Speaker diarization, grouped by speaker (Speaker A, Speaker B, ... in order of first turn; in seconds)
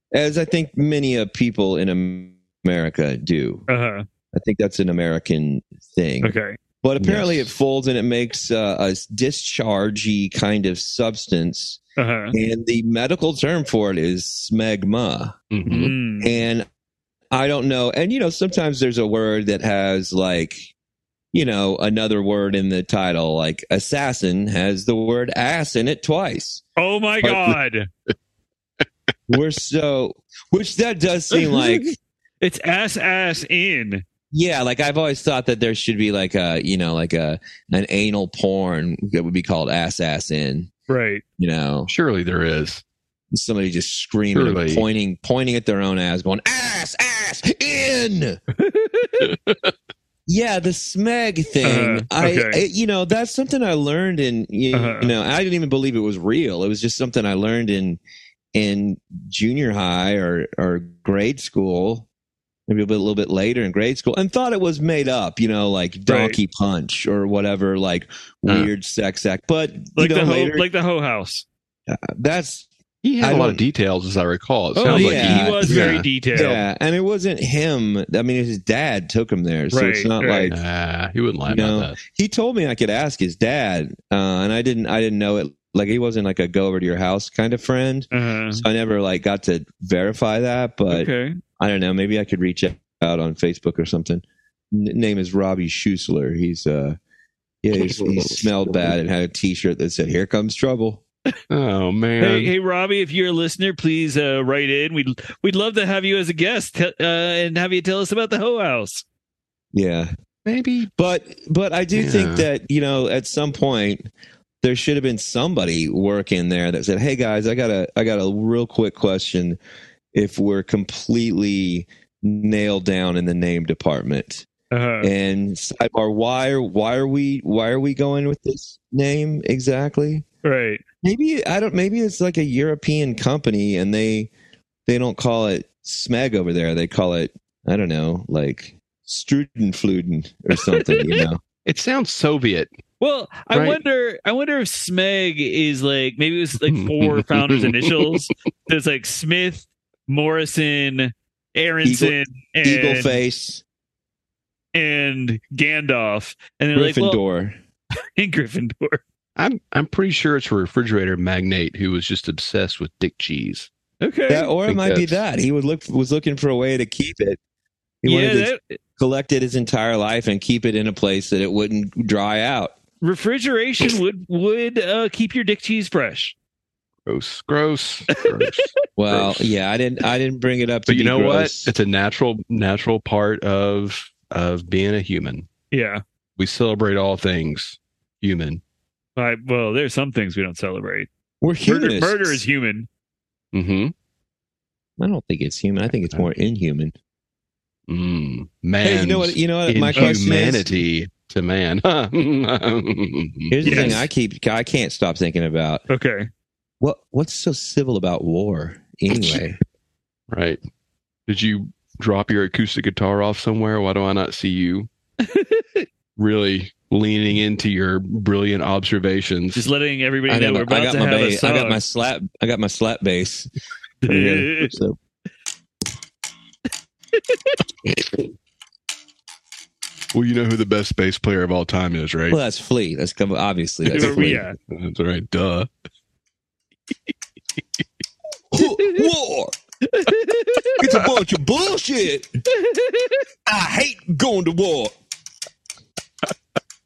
Speaker A: 0.1-3.7, 4.3-11.8, 12.3-15.3, 16.2-16.6, 17.3-20.7, 21.3-26.6, 29.3-31.9, 34.3-40.7, 41.4-41.9, 43.3-48.4, 50.3-58.0, 58.5-62.1, 62.7-70.6, 71.9-72.7, 73.2-73.6, 74.8-80.6, 81.5-97.0, 97.6-101.0, 109.7-110.1, 111.0-114.1, 114.6-119.6, 120.1-124.5, 125.0-130.2, 131.0-134.3, 134.9-141.4, 151.8-153.6, 156.7-157.6, 164.3-167.4, 168.0-172.7, 179.0-181.7, 191.4-192.4, 195.0-196.9, 198.8-200.8, 203.5-205.8, 206.8-209.6, 220.3-223.5, 224.1-225.0, 232.3-234.4, 238.5-239.5, 240.8-242.4, 243.4-244.9
Speaker B: 3.7-4.0, 6.2-6.6, 12.0-12.3, 15.7-16.3, 26.8-27.9, 31.3-31.8, 32.4-34.0, 40.9-41.2, 48.6-49.3, 51.6-52.6, 54.7-55.1, 66.1-66.4, 70.0-71.5, 74.8-76.6, 79.7-80.5, 88.1-88.6, 90.9-91.4, 102.2-109.0, 124.7-125.1, 130.4-130.8, 140.5-141.2, 143.0-153.1, 154.7-157.2, 158.2-159.0, 164.0-164.5, 168.0-168.8, 173.0-176.3, 178.2-178.5, 185.7-186.0, 189.2-191.1, 191.6-192.9, 199.9-200.2, 203.6-204.0, 205.9-206.3, 215.2-215.8, 219.5-221.8, 224.0-224.7, 227.1-227.6, 233.9-234.6, 238.6-239.0, 239.8-240.8, 242.5-243.2
Speaker C: 7.0-7.4, 15.5-15.9, 27.2-27.5, 41.9-42.8, 44.3-44.8, 49.2-49.7, 73.0-76.0, 80.5-81.9, 97.7-98.9, 101.5-102.5, 110.5-110.9, 111.9-112.5, 141.7-142.7, 143.5-143.8, 146.7-148.2, 159.4-163.7, 164.7-165.2, 177.1-179.5, 180.9-185.5, 186.4-188.6, 193.5-193.9, 197.9-204.0, 209.1-209.4, 210.3-210.6, 211.3-214.9, 216.2-219.6, 230.1-232.4, 233.9-235.7